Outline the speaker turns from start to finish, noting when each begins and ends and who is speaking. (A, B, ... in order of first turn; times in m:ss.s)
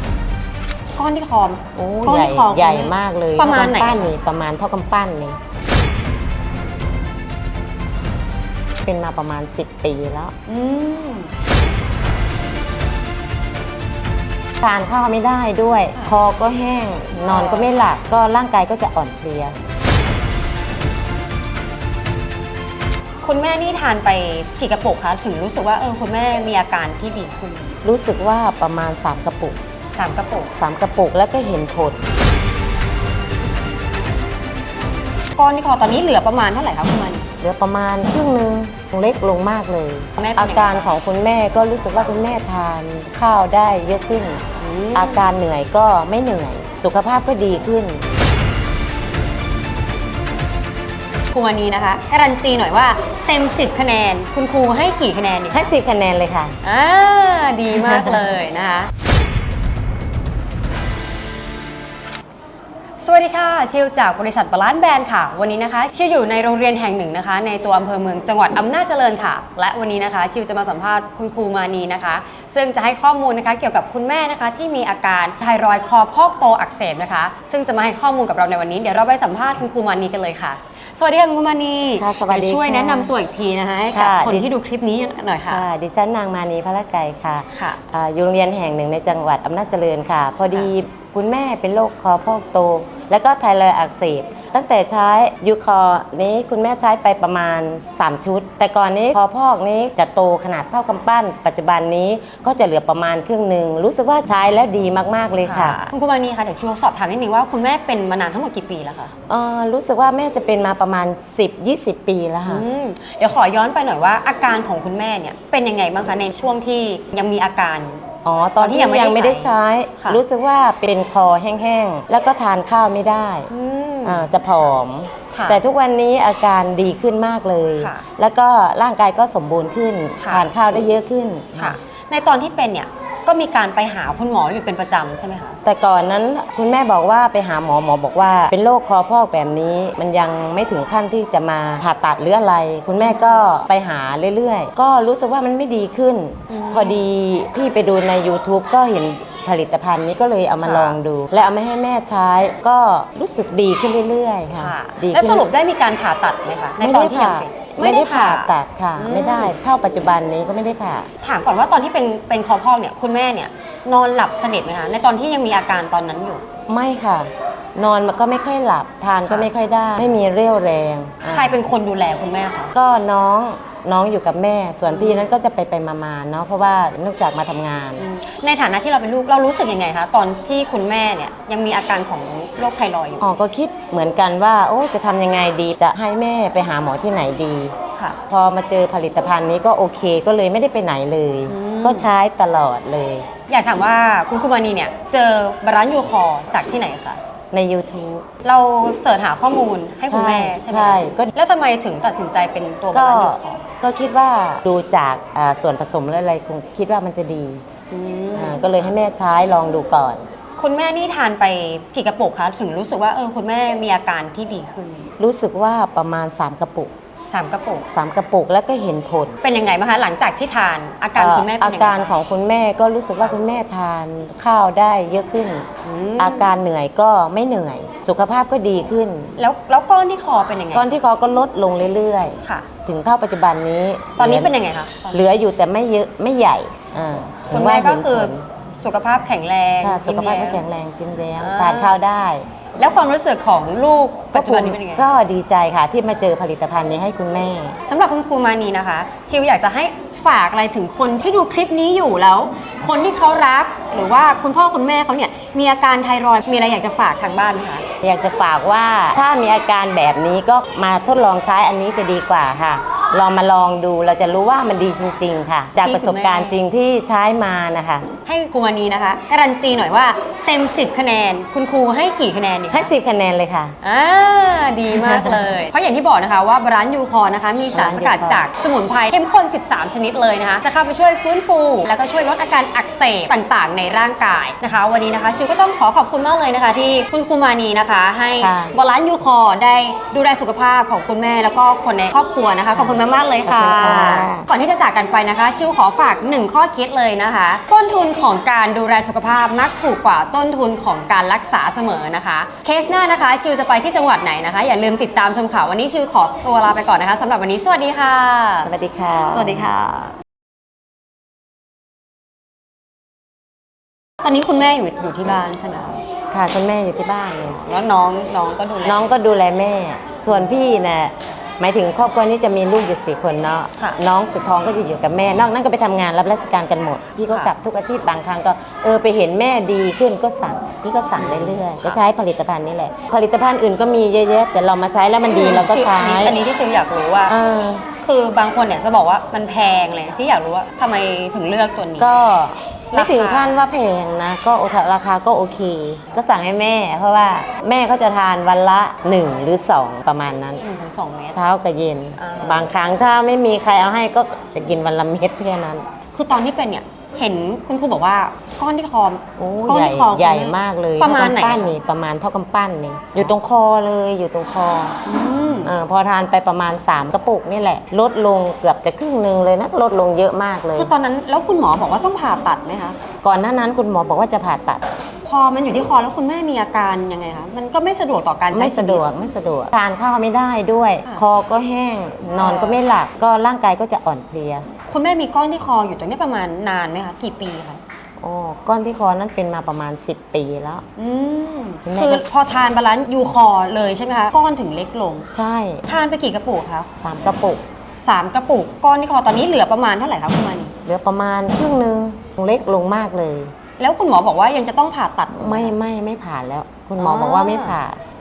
0:01.0-0:04.1 A
0:01.7-0:05.4 B
0:08.8-0:10.3 B
0:10.5-0:11.3 A
0:14.6-0:19.5 B
0:17.3-0:17.7 A
0:23.2-0:27.8 A
0:27.8-0:29.6 B
0:29.9-0:30.5 A
0:30.6-0:32.0 B
0:35.4-0:37.3 A
0:37.4-0:44.4 B
0:40.2-0:40.9 A
0:44.6-0:45.2 A
0:44.9-0:48.0 B
0:51.3-0:55.7 A
0:55.5-0:56.5 B
0:56.6-0:58.9 A
1:03.0-1:25.6 A
1:22.0-1:23.1 B
1:23.9-1:24.5 B
1:25.5-1:45.8 B
1:27.5-1:27.8 A
1:45.4-1:49.1 A
1:49.3-1:52.6 B
1:52.4-1:58.0 A
1:58.2-2:03.5 B
1:58.6-2:00.2 A
2:03.5-2:04.3 A
2:04.0-2:11.8 B
2:05.3-2:05.6 A
2:07.8-2:08.0 A
2:10.2-2:10.9 A
2:11.5-2:15.6 A
2:15.6-2:35.4 B
2:23.0-2:23.4 A
2:26.5-2:27.0 A
2:30.6-2:31.0 A
2:34.5-2:39.6 A
2:36.8-2:41.1 B
2:41.2-2:46.4 A
2:46.7-2:51.6 B
2:51.2-2:52.7 A
2:52.7-2:58.0 B
2:54.9-2:55.3 A
2:58.0-3:03.2 A
3:03.2-3:07.7 B
3:08.3-3:13.2 B
3:11.5-3:12.1 A
3:13.5-3:17.2 A
3:17.5-3:18.2 B
3:18.4-3:23.7 A
3:20.1-3:21.3 B
3:22.9-3:27.6 B
3:27.9-3:29.0 A
3:28.3-3:30.2 B
3:30.6-3:35.1 A
3:35.2-3:36.9 B
3:37.3-3:37.9 A
3:37.9-3:39.4 B
3:39.4-3:42.2 A
3:41.2-3:45.7 B
3:45.8-3:46.5 A
3:46.2-3:49.4 B
3:49.4-3:51.0 A
3:50.7-3:54.5 B
3:52.4-3:52.7 A
3:54.2-3:55.2 A
3:55.1-3:58.4 B
3:57.5-4:00.6 A
3:59.8-4:02.4 B
4:01.4-4:02.0 A
4:02.8-4:05.1 A
4:04.3-4:07.8 B
4:07.8-4:17.8 A
4:18.0-4:28.1 B
4:25.8-4:26.6 A
4:28.2-4:32.9 A
4:32.7-4:33.7 B
4:33.8-5:08.7 A
4:35.1-4:35.4 B
4:37.7-4:38.4 B
4:48.4-4:48.7 B
4:52.7-4:54.5 B
5:08.6-5:09.7 B
5:09.3-5:10.2 A
5:14.2-5:16.0 A
5:16.3-5:17.6 B
5:17.6-5:19.0 A
5:18.8-5:36.4 B
5:27.3-5:27.5 A
5:31.2-5:32.0 A
5:35.3-5:37.3 A
5:37.3-5:37.9 B
5:38.0-5:42.1 A
5:42.0-5:50.6 B
5:42.9-5:43.6 A
5:50.6-5:51.4 A
5:51.3-5:55.8 B
5:52.2-5:52.7 A
5:56.1-6:01.7 A
5:59.4-6:05.0 B
6:05.0-6:05.7 A
6:05.6-6:10.9 B
6:10.7-6:13.0 A
6:13.2-6:14.8 B
6:15.3-6:19.0 A
6:18.5-6:24.7 B
6:22.4-6:22.8 A
6:24.9-6:27.8 A
6:28.2-6:30.8 B
6:31.0-6:35.3 A
6:31.9-6:32.3 B
6:35.3-6:35.8 B
6:35.9-6:36.9 A
6:37.0-6:37.6 B
6:38.0-6:40.7 A
6:40.8-6:43.5 B
6:43.8-6:45.8 A
6:45.3-6:48.0 B
6:47.0-6:47.8 A